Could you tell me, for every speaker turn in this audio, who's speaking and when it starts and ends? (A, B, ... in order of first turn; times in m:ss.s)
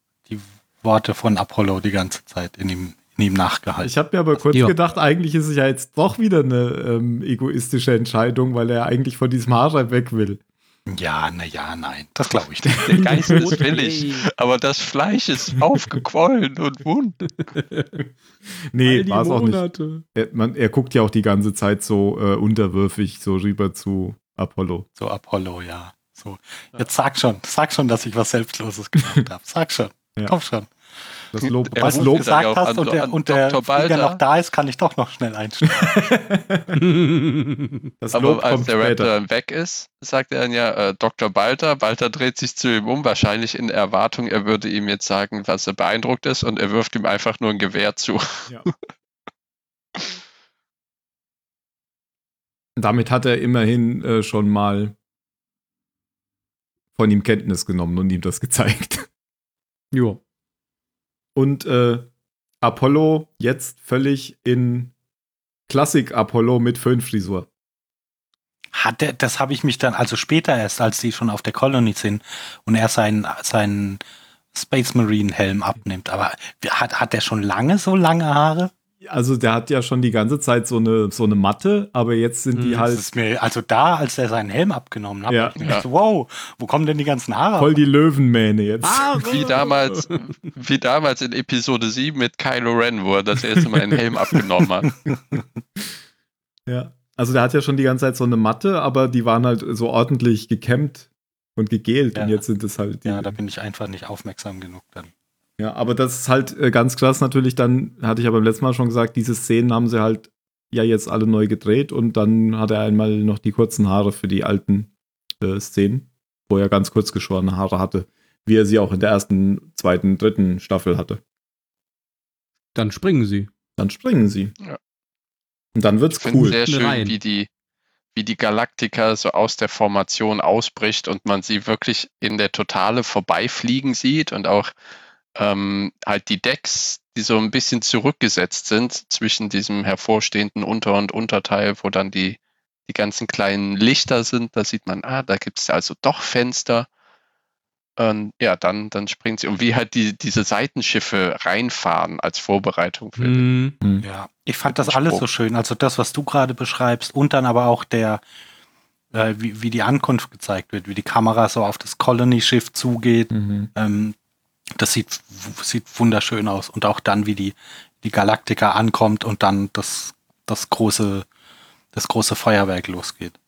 0:00.3-0:03.9 A
0:03.8-0:10.4 B
0:10.9-0:12.9 A
0:12.8-0:17.2 C
0:12.9-0:14.2 D
0:17.4-0:18.0 D
0:18.7-0:24.9 B
0:18.8-0:20.0 D
0:25.0-0:30.7 A
0:31.3-0:32.3 B
0:31.4-0:36.0 A
0:31.7-0:34.2 C
0:35.6-0:36.8 B
0:36.7-0:37.9 D
0:38.0-0:39.1 B
0:38.1-0:48.7 C
0:52.8-0:55.0 B
0:57.0-0:59.1 B
0:59.9-1:00.2 D
1:01.3-1:02.1 B
1:02.6-1:04.9 B
1:05.7-1:07.5 B
1:08.7-1:14.0 A
1:14.5-1:18.7 A
1:19.0-1:23.0 B
1:22.5-1:22.9 D
1:22.9-1:27.8 A
1:25.3-1:25.6 B
1:27.6-1:29.5 B
1:28.8-1:30.3 D
1:29.3-1:34.9 C
1:35.1-1:35.4 A
1:36.7-1:43.4 B
1:42.1-1:42.4 A
1:43.0-1:45.1 A
1:45.6-2:01.2 B
2:02.7-2:03.5 D
2:03.8-2:04.5 B
2:05.7-2:06.6 B
2:06.1-2:07.5 C
2:06.5-2:07.2 D
2:08.1-2:14.7 C
2:15.4-2:26.9 C
2:28.0-2:33.5 C
2:33.2-2:33.8 D
2:34.0-2:38.2 A
2:34.7-2:35.3 C
2:39.1-2:44.1 A
2:43.3-2:43.7 B
2:44.8-2:51.3 A
2:51.9-2:53.4 A